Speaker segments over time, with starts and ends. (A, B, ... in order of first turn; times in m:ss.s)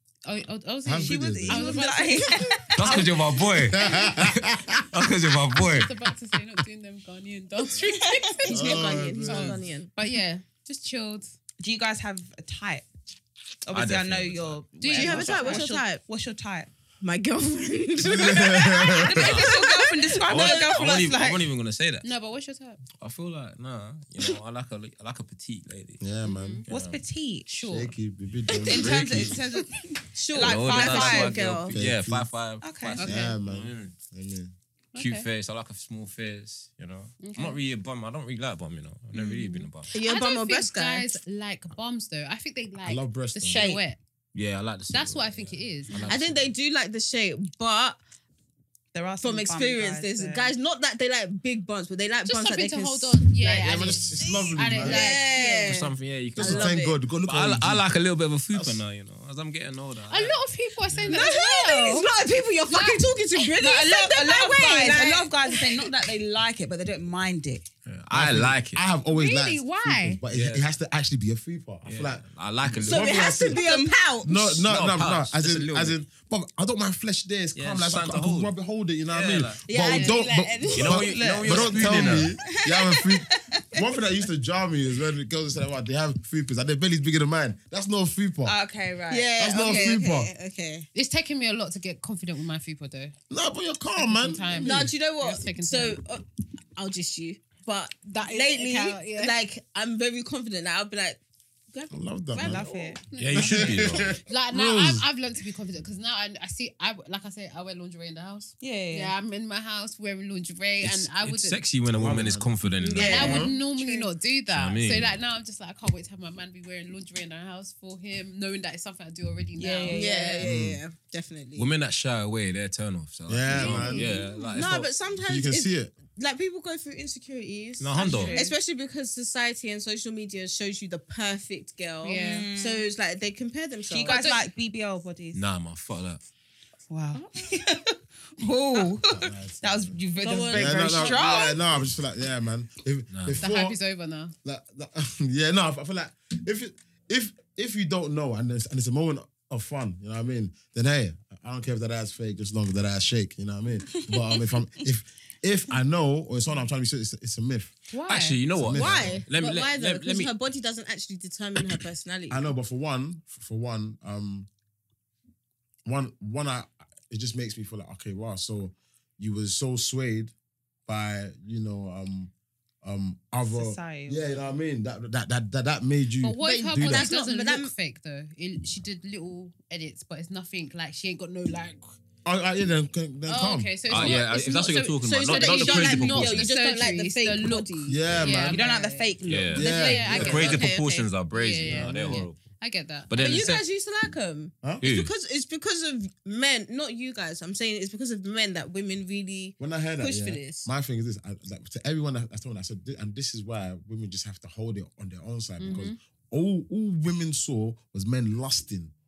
0:00.2-0:02.6 A
0:00.8-0:01.8 B
0:01.0-0:03.6 C
0:02.8-0:05.9 D
0:03.6-0:05.0 B
0:05.6-0:11.4 A
0:08.4-0:09.9 E
0:08.5-0:09.6 B
0:11.6-0:12.9 C
0:13.7-0:16.7 C
0:13.7-0:14.6 D
0:14.8-0:15.7 A
0:14.9-0:16.0 E
0:17.0-0:21.0 E
0:18.0-0:19.2 B
0:19.0-0:21.5 C
0:19.2-0:19.6 D
0:20.2-0:22.1 D
0:22.0-0:22.8 A
0:23.0-0:26.0 D
0:26.0-0:26.6 B
0:26.2-0:26.6 A
0:26.7-0:27.0 D
0:26.7-0:27.5 C
0:27.5-0:27.9 A
0:27.7-0:29.4 B
0:28.7-0:31.5 C
0:28.8-0:29.4 D
0:30.2-0:31.8 E
0:30.4-0:34.0 D
0:31.7-0:32.3 B
0:32.6-0:33.0 C
0:33.0-0:33.4 A
0:33.0-0:34.5 B
0:35.0-0:35.3 A
0:35.0-0:39.9 D
0:37.2-0:37.6 A
0:39.1-0:39.6 C
0:39.9-0:41.2 E
0:40.0-0:44.0 A
0:42.8-0:43.7 B
0:43.5-0:43.8 C
0:44.3-0:46.5 D
0:44.9-0:46.1 A
0:46.1-0:48.0 E
0:48.9-0:50.5 C
0:49.2-0:57.0 E
0:52.2-0:55.7 A
0:53.6-0:55.2 B
0:55.6-1:00.4 D
0:56.4-0:57.9 B
0:58.5-0:58.8 B
1:00.1-1:02.1 A
1:01.1-1:05.9 E
1:02.7-1:03.1 A
1:03.6-1:07.7 C
1:07.8-1:08.8 D
1:08.1-1:13.6 B
1:09.1-1:10.2 A
1:10.3-1:10.7 D
1:11.8-1:13.2 D
1:12.8-1:14.6 E
1:13.2-1:14.0 C
1:14.2-1:28.6 B
1:14.6-1:16.0 D
1:17.6-1:18.5 D
1:19.1-1:19.6 D
1:19.7-1:21.2 E
1:19.9-1:20.2 A
1:20.7-1:22.4 D
1:21.0-1:23.8 C
1:28.4-1:30.0 C
1:29.1-1:30.9 E
1:29.4-1:30.3 B
1:31.0-1:33.2 A
1:33.3-1:34.9 B
1:34.0-1:36.0 A
1:34.5-1:36.2 E
1:36.8-1:41.2 E
1:38.1-1:39.4 A
1:41.7-1:43.0 E
1:41.9-1:42.7 B
1:42.4-1:43.0 C
1:43.1-1:51.6 A
1:43.2-1:44.1 D
1:43.3-1:45.1 B
1:48.6-1:49.1 C
1:50.8-1:53.4 D
1:51.9-1:53.6 B
1:52.8-1:54.1 E
1:53.0-2:00.4 A
1:53.0-1:53.4 C
1:54.5-1:55.2 D
1:59.6-2:00.5 C
1:59.9-2:01.7 E
2:00.4-2:00.8 B
2:01.6-2:04.9 D
2:03.3-2:04.1 B
2:03.5-2:04.3 A
2:03.8-2:14.2 E
2:05.2-2:05.9 B
2:07.8-2:08.4 D
2:08.0-2:08.6 C
2:08.0-2:08.4 A
2:12.0-2:12.5 A
2:12.1-2:12.9 C
2:13.9-2:15.4 C
2:14.1-2:14.4 A
2:15.3-2:16.2 D
2:16.9-2:21.6 C
2:17.2-2:17.4 E
2:19.0-2:20.0 B
2:20.2-2:21.6 E
2:20.5-2:23.8 B
2:23.1-2:23.4 D
2:23.4-2:24.4 A
2:24.4-2:37.7 B
2:34.0-2:34.4 C
2:37.9-2:38.4 C
2:38.1-2:40.3 D
2:38.6-2:39.2 B
2:38.7-2:42.5 E
2:42.3-2:44.5 B
2:45.8-2:50.3 B
2:50.9-2:52.3 B
2:52.8-2:57.1 B
2:53.4-2:54.5 C
2:56.2-3:02.0 A
2:56.4-2:57.7 E
3:02.2-3:04.2 B
3:03.3-3:13.2 A
3:03.9-3:06.5 D
3:05.0-3:08.1 E
3:07.9-3:08.6 B
3:08.5-3:10.0 C
3:09.2-3:12.4 D
3:09.5-3:10.7 B
3:10.2-3:11.1 E
3:11.6-3:12.2 B
3:13.1-3:13.6 D
3:13.2-3:20.7 E
3:14.8-3:15.1 D
3:19.6-3:28.9 B
3:25.6-3:26.0 A